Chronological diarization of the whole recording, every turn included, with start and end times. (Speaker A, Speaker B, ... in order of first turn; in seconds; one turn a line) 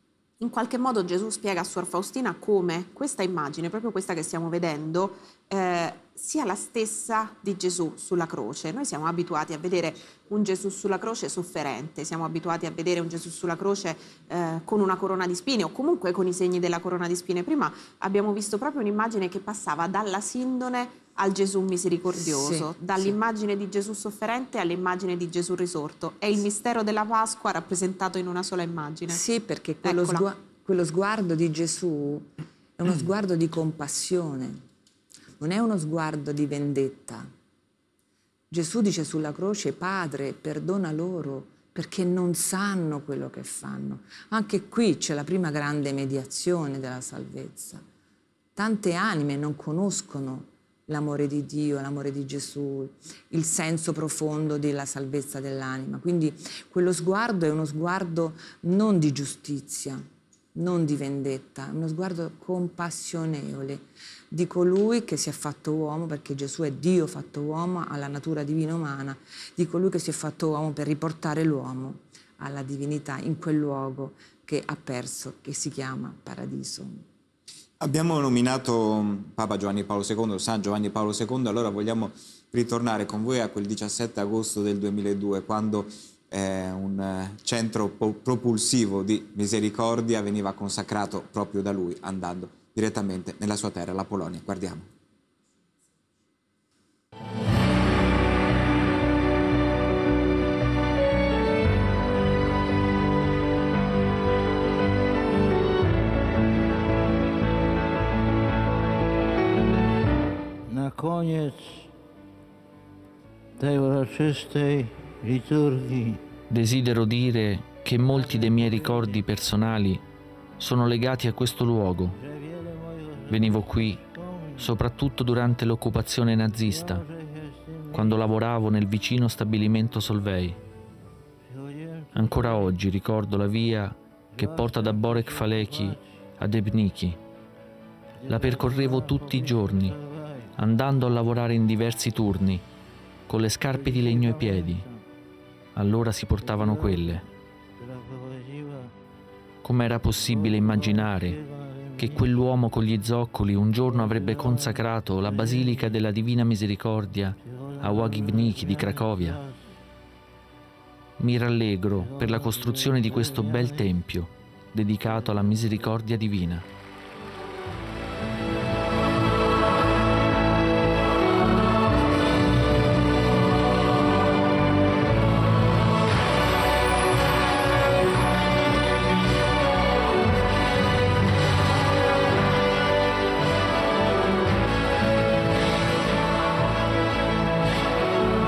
Speaker A: 0.4-29.2
Speaker B: 22.2-23.1
Speaker B: 29.1-34.6
Speaker A: 29.8-30.3
Speaker B: 35.4-37.3
Speaker B: 38.5-47.8
Speaker B: 48.6-77.0
Speaker C: 77.8-94.9
Speaker D: 110.7-111.9
Speaker D: 113.6-116.2
Speaker E: 116.5-120.0
Speaker D: 118.1-119.3
Speaker E: 120.6-122.2
Speaker D: 122.2-124.8
Speaker E: 123.3-124.0
Speaker E: 124.6-127.0
Speaker D: 126.6-128.2
Speaker E: 127.9-130.6
Speaker D: 131.4-132.7
Speaker E: 132.1-137.2
Speaker D: 134.3-136.2
Speaker D: 138.2-140.5
Speaker E: 138.3-140.0
Speaker E: 140.6-142.6
Speaker E: 143.3-144.9
Speaker D: 143.6-145.0
Speaker E: 145.8-147.2
Speaker D: 146.4-147.2
Speaker D: 147.8-148.9
Speaker E: 149.6-151.4
Speaker D: 150.1-152.5
Speaker E: 152.0-159.4
Speaker D: 153.8-156.0
Speaker D: 157.4-159.6
Speaker E: 161.2-166.6
Speaker D: 162.0-163.9
Speaker D: 165.0-165.4